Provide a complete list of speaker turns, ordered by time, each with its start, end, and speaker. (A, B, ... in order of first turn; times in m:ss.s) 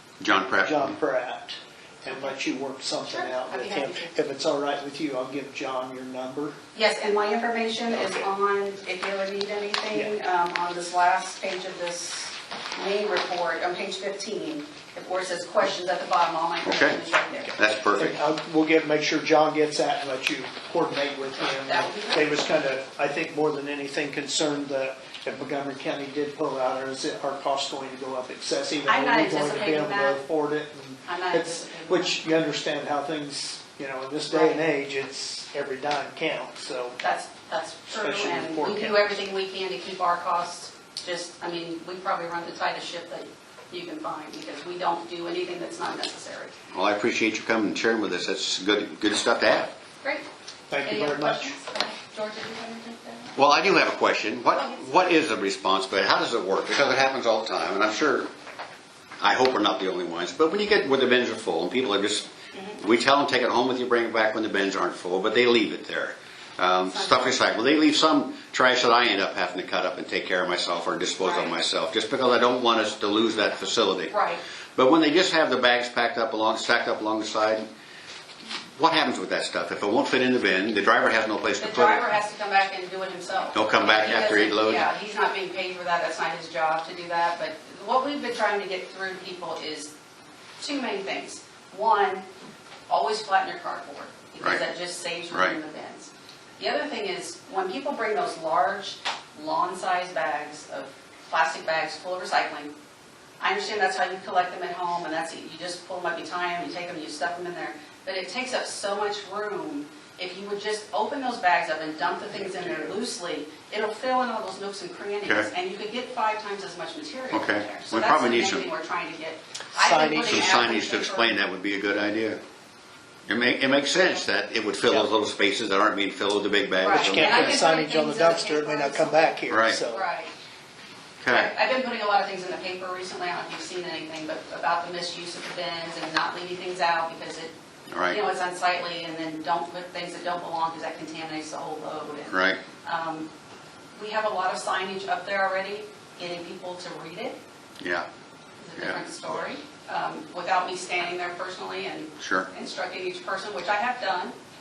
0:00.2-0:01.0 A
0:00.6-0:06.5 B
0:03.1-0:04.1 C
0:06.8-0:17.6 C
0:07.9-0:08.3 B
0:16.6-0:17.0 A
0:17.6-0:18.2 A
0:17.9-0:37.0 B
0:21.4-0:22.4 C
0:28.9-0:30.2 C
0:31.1-0:32.2 C
0:34.3-0:34.6 C
0:37.0-0:46.6 C
0:37.9-0:39.2 B
0:46.7-0:49.7 A
0:50.7-0:51.6 B
0:50.8-0:53.4 C
0:53.4-0:58.3 A
0:54.5-0:54.8 C
0:59.2-1:02.3 A
1:02.5-1:02.8 C
1:02.8-1:14.1 A
1:06.9-1:07.4 C
1:11.2-1:11.5 C
1:14.1-1:14.4 C
1:14.8-1:17.6 A
1:18.8-1:22.2 A
1:21.6-1:29.9 C
1:23.5-1:24.9 A
1:30.6-1:32.3 C
1:32.9-1:42.7 C
1:43.4-2:01.4 C
1:57.3-1:58.7 A
1:59.8-2:00.6 B
2:00.2-2:02.4 A
2:03.3-2:07.6 A
2:06.8-2:10.3 C
2:07.0-2:10.1 B
2:09.5-2:09.8 A
2:11.2-2:11.5 A
2:11.3-2:17.5 C
2:17.9-2:18.2 A
2:18.1-2:23.3 C
2:22.3-2:22.6 A
2:24.0-2:27.4 C
2:27.8-2:28.1 A
2:28.6-2:34.4 C
2:28.8-2:29.1 A
2:32.2-2:32.5 A